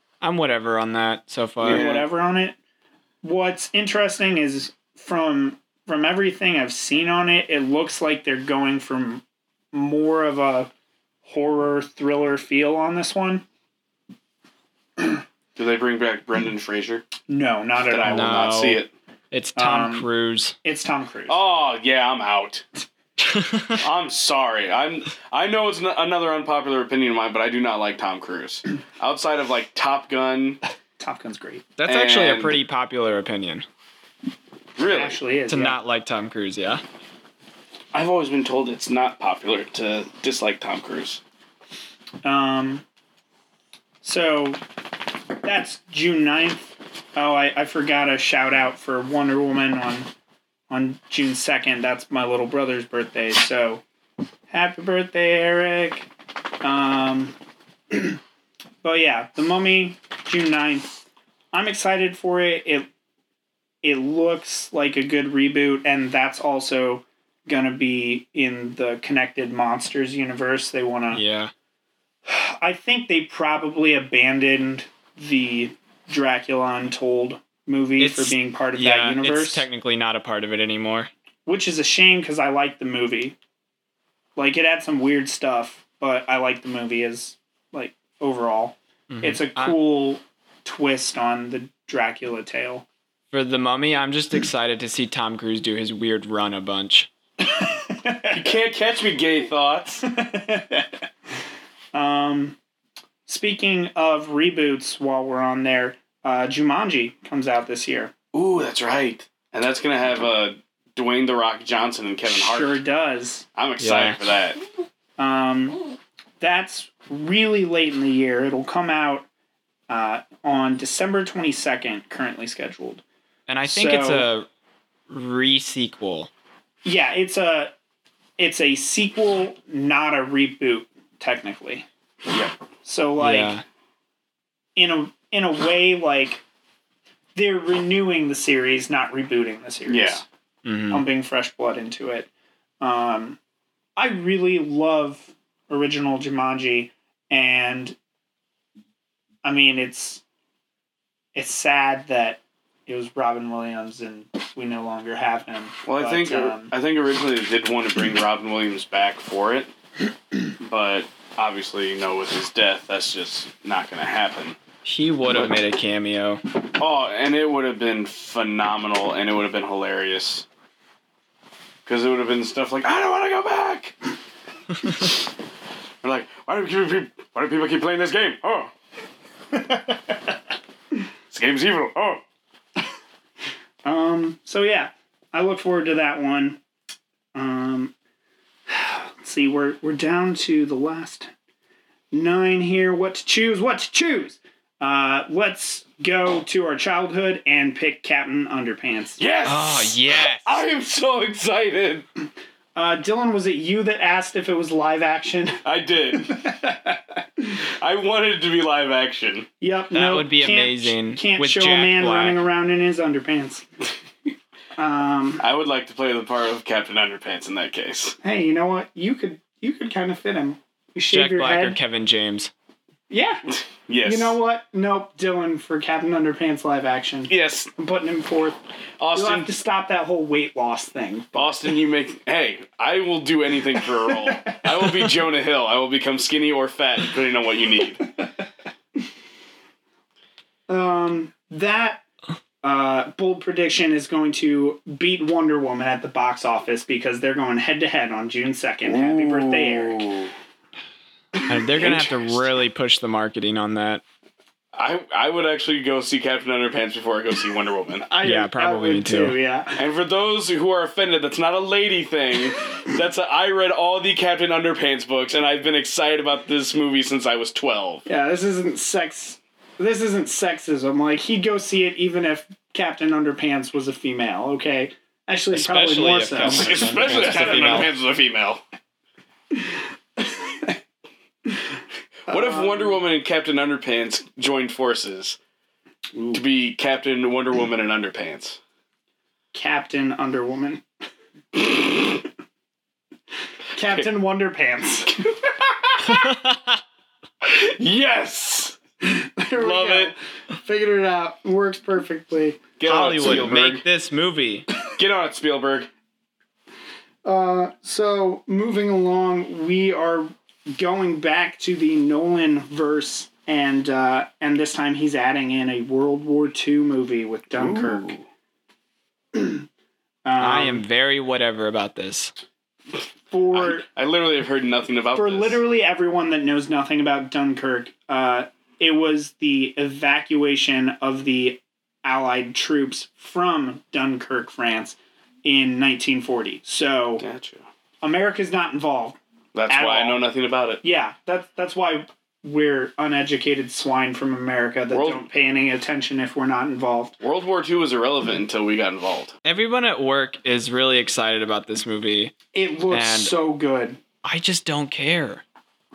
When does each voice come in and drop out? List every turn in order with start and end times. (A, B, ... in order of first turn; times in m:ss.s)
0:00.2-0:01.9 A
0:01.6-0:02.6 B
0:01.6-0:02.1 C
0:03.2-0:10.7 B
0:11.2-0:13.4 B
0:15.6-0:17.1 C
0:17.3-0:18.6 B
0:17.9-0:18.9 C
0:18.0-0:20.6 A
0:19.6-0:20.1 B
0:20.6-0:21.4 B
0:21.3-0:22.7 C
0:23.2-0:23.8 A
0:23.8-0:30.6 C
0:31.0-0:31.7 B
0:31.8-0:33.6 A
0:31.8-0:32.6 C
0:34.8-0:35.2 C
0:34.8-0:35.8 B
0:35.5-0:36.8 A
0:37.9-0:41.2 C
0:42.2-0:42.8 B
0:44.0-0:44.6 B
0:45.4-0:50.1 B
0:50.7-0:53.8 B
0:54.5-0:56.1 B
0:56.6-0:57.4 B
0:57.9-0:58.2 B
0:58.8-1:01.0 B
1:01.5-1:02.9 B
1:03.8-1:11.2 B
1:11.1-1:11.5 A
1:12.2-1:19.6 B
1:18.0-1:21.1 A
1:21.4-1:23.4 B
1:24.4-1:32.8 B
1:29.1-1:29.8 A
1:33.3-1:37.1 A
1:37.4-1:38.4 B
1:38.3-1:40.0 C
1:40.0-1:40.9 B
1:41.9-1:42.6 B
1:43.2-1:48.1 B
1:48.3-1:52.8 C
1:52.2-1:53.4 B
1:53.5-1:54.6 C
1:53.8-1:54.2 A
1:55.2-1:55.8 B
1:56.4-1:59.3 B
1:59.9-2:03.0 B
2:03.5-2:04.5 A
2:03.7-2:04.3 B
2:05.1-2:06.3 A
2:06.8-2:07.7 B
2:08.4-2:11.9 B
2:12.3-2:12.5 C
2:12.8-2:13.6 B
2:13.2-2:13.6 A
2:14.8-2:16.4 B
2:17.3-2:20.2 B
2:19.8-2:20.2 C
2:20.6-2:21.0 A
2:20.9-2:22.3 B
2:22.8-2:23.4 B
2:24.0-2:28.0 B
2:29.4-2:30.2 B
2:31.3-2:36.7 B
2:35.8-2:39.7 C
2:40.6-2:44.6 C
2:44.8-2:46.4 A
2:45.3-2:45.5 C
2:46.7-2:50.4 C
2:51.8-2:54.0 C
2:56.0-2:58.7 C
2:59.5-3:00.2 B
3:01.3-3:02.2 C
3:03.8-3:06.6 B
3:07.3-3:07.9 B
3:08.7-3:11.3 B
3:12.1-3:19.2 B
3:19.2-3:22.1 C
3:19.4-3:20.5 A
3:22.7-3:25.6 B
3:25.6-3:26.4 C
3:26.2-3:27.5 B
3:27.7-3:29.5 C
3:29.6-3:33.7 B
3:29.9-3:32.4 A
3:34.8-3:35.4 B
3:35.4-3:38.2 C
3:38.2-3:41.8 B
3:41.1-3:42.5 A
3:43.1-3:43.5 B
3:43.8-3:44.3 C
3:44.0-3:48.6 B
3:47.3-3:47.7 C
3:49.0-3:49.5 C
3:49.1-3:51.7 B
3:51.3-3:58.0 C
3:54.1-3:54.8 B
4:00.7-4:02.0 B
4:02.6-4:10.1 B
4:08.8-4:10.3 C
4:11.4-4:14.0 A
4:11.7-4:12.4 C
4:14.7-4:18.1 C
4:18.0-4:19.8 B
4:18.2-4:19.4 A
4:19.8-4:28.0 C
4:28.0-4:37.9 B
4:35.5-4:37.9 A
4:36.4-4:38.6 C
4:39.5-4:40.8 B
4:42.3-4:45.4 C
4:42.3-4:43.0 B
4:46.1-4:46.4 B
4:46.3-4:48.6 C
4:49.5-4:50.8 B
4:53.7-4:55.4 B
4:56.0-4:56.7 A
4:57.4-4:58.8 C
4:59.0-5:02.6 B
4:59.6-5:00.1 C
5:02.8-5:03.8 C
5:02.8-5:04.7 A
5:04.9-5:05.9 C
5:07.2-5:18.2 B
5:17.5-5:18.2 C
5:19.3-5:19.7 B
5:20.2-5:20.8 B
5:20.4-5:22.3 A
5:23.3-5:23.8 B
5:23.5-5:25.6 C
5:25.1-5:37.2 B
5:37.2-5:37.7 C
5:38.0-5:39.2 B
5:39.5-5:40.8 C
5:39.7-5:40.2 B
5:40.8-5:47.2 B
5:44.9-5:45.3 C
5:47.2-5:49.3 C
5:49.4-5:52.4 A
5:52.5-5:54.0 B
5:52.9-5:53.3 A
5:54.2-5:55.4 A